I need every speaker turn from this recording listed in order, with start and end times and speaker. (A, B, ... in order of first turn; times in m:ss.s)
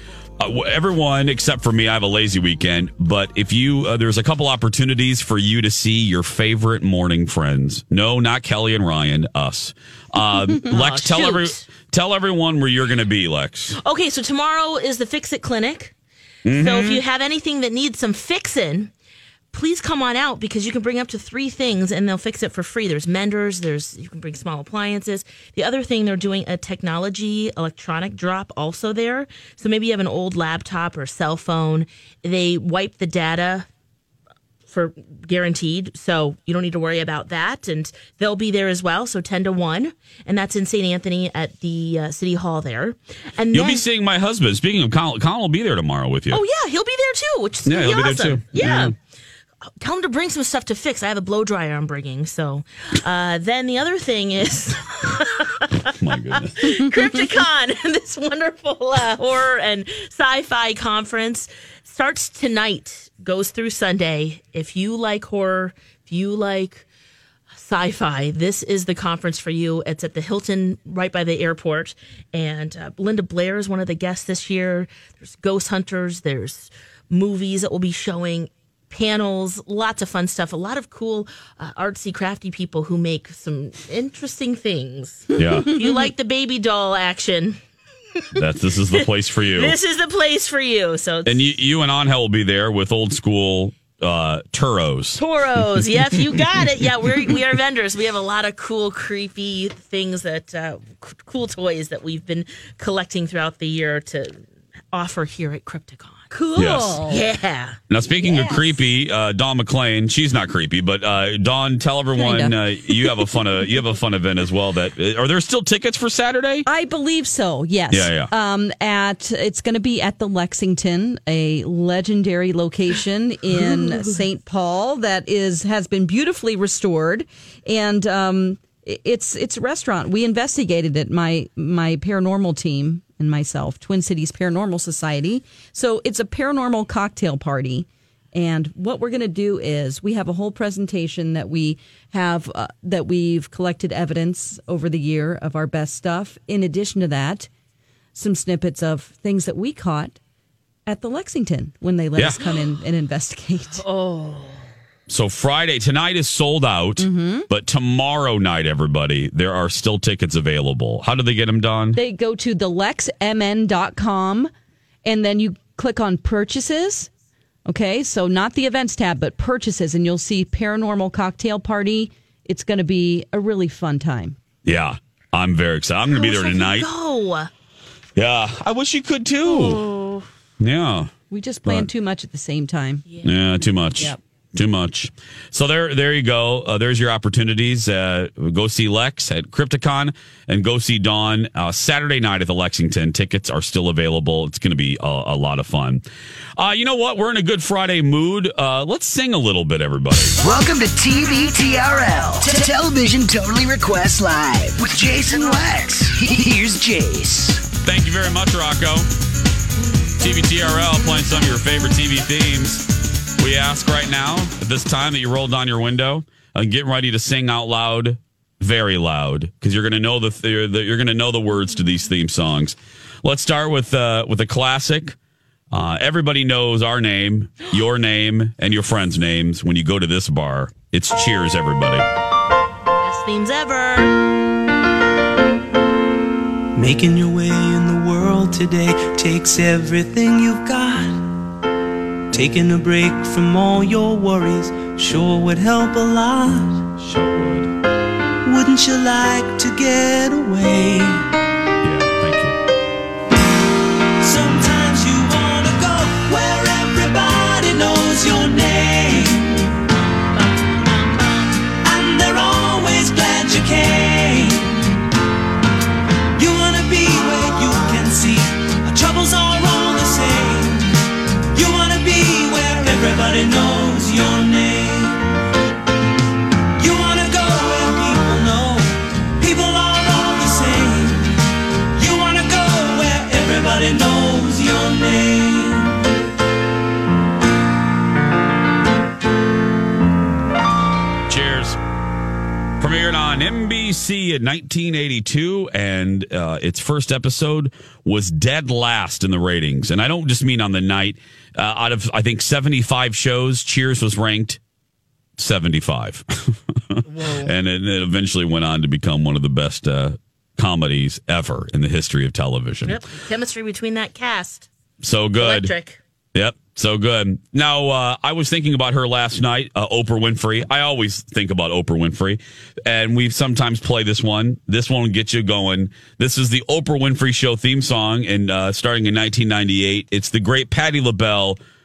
0:00.4-0:13.8 A
0:10.7-0:11.6 B
0:13.8-0:15.9 B
0:16.4-0:17.0 A
0:16.5-0:18.9 B
0:19.5-0:33.7 B
0:34.7-0:43.8 B
0:43.5-0:46.4 A
0:46.3-0:48.9 B
0:47.6-0:48.9 A
0:49.8-0:55.7 B
0:55.9-0:56.7 A
0:56.5-1:06.8 B
1:07.5-1:27.6 B
1:25.4-1:25.7 A
1:28.4-1:29.8 A
1:28.9-1:31.4 B
1:31.2-1:35.2 A
1:35.2-1:44.4 B
1:44.9-1:46.3 B
1:46.3-1:47.2 C
1:46.6-1:47.0 A
1:47.0-1:47.8 B
1:47.9-1:56.6 A
1:48.3-1:48.6 C
1:48.3-1:48.6 B
1:52.2-1:53.3 C
1:56.6-2:27.5 C
1:57.9-1:58.3 A
2:28.1-2:30.2 C
2:30.9-2:33.8 C
2:33.8-2:34.6 B
2:35.1-2:42.0 A
2:37.0-2:37.5 C
2:41.9-2:44.5 C
2:45.0-2:47.1 C
2:47.6-2:54.4 C
2:54.6-2:56.9 A
2:56.1-2:57.5 B
2:58.2-2:59.9 A
2:59.4-3:00.2 B
3:00.6-3:01.1 A
3:01.3-3:03.0 C
3:03.0-3:03.3 B
3:03.2-3:16.0 A
3:16.6-3:20.4 A
3:20.4-3:27.6 D
3:27.8-3:29.1 A
3:30.2-3:32.8 A
3:33.4-3:45.2 A
3:45.7-3:52.0 A
3:52.9-3:54.1 B
3:56.7-4:01.2 E
4:02.3-4:06.8 E
4:07.0-4:07.7 A
4:08.4-4:11.3 E
4:11.8-4:12.6 A
4:14.2-4:19.7 E
4:20.8-4:21.4 B
4:21.8-4:25.0 E
4:26.4-4:35.2 E
4:36.8-4:41.3 E
4:42.0-4:46.0 E
4:51.3-4:51.8 A
4:52.8-5:04.6 A
5:05.4-5:13.0 A
5:07.1-5:07.5 B
5:12.8-5:14.7 B
5:15.0-5:15.7 A
5:15.4-5:16.0 B
5:16.3-5:31.6 A